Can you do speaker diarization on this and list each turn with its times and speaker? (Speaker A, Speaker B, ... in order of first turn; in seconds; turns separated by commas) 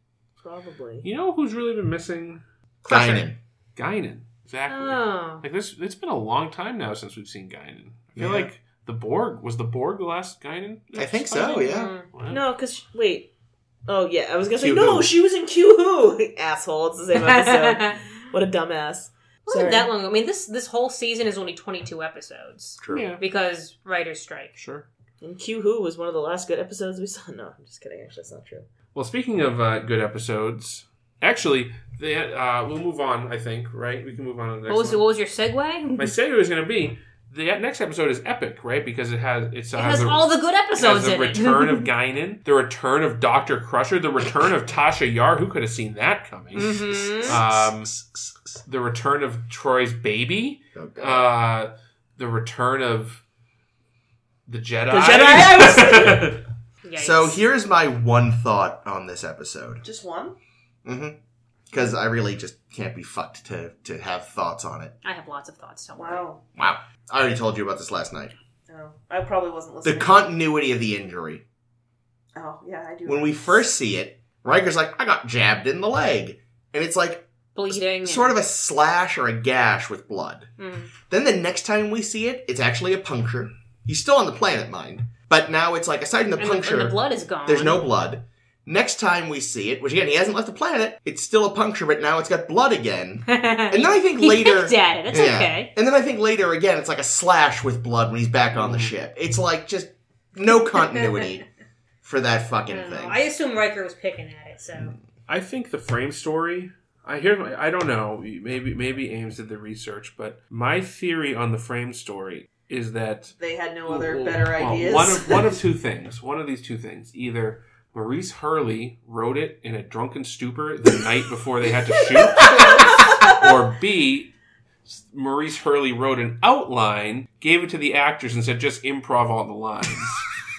Speaker A: 0.4-1.1, Speaker B: 1.0-2.4, Speaker C: 2.8-3.4, Speaker D: 2.9-3.2, Speaker B: 3.8-12.4, Speaker D: 4.7-5.4, Speaker C: 8.2-8.5, Speaker C: 10.9-11.9, Speaker D: 11.6-12.1, Speaker A: 12.3-13.3, Speaker A: 13.9-19.9, Speaker C: 14.6-15.1, Speaker D: 17.1-18.0, Speaker D: 19.5-24.5, Speaker C: 22.8-23.1, Speaker B: 22.9-23.2, Speaker B: 24.6-24.9, Speaker A: 25.2-28.6, Speaker B: 28.9-35.0, Speaker D: 34.7-36.1, Speaker B: 35.9-47.9, Speaker D: 39.7-41.9, Speaker D: 46.5-47.4, Speaker C: 47.0-48.6, Speaker B: 48.6-53.2, Speaker C: 50.7-51.3, Speaker B: 54.5-56.4, Speaker A: 54.9-56.4, Speaker D: 56.8-57.4, Speaker C: 57.0-59.8, Speaker A: 59.8-60.4, Speaker C: 60.8-61.1, Speaker C: 61.7-64.9, Speaker D: 65.0-66.2, Speaker A: 66.0-66.4, Speaker C: 66.6-68.3, Speaker A: 68.7-70.2, Speaker C: 69.8-71.4, Speaker A: 72.3-73.7, Speaker C: 73.0-80.5, Speaker D: 77.5-78.3, Speaker D: 80.6-80.9, Speaker C: 81.0-101.4, Speaker D: 86.4-87.8, Speaker D: 93.3-95.7, Speaker B: 98.5-98.9, Speaker D: 100.9-101.3, Speaker C: 102.0-103.2, Speaker D: 102.7-105.0, Speaker B: 105.3-124.3, Speaker A: 113.4-115.6, Speaker A: 122.4-122.9, Speaker D: 122.5-122.8, Speaker B: 124.9-130.2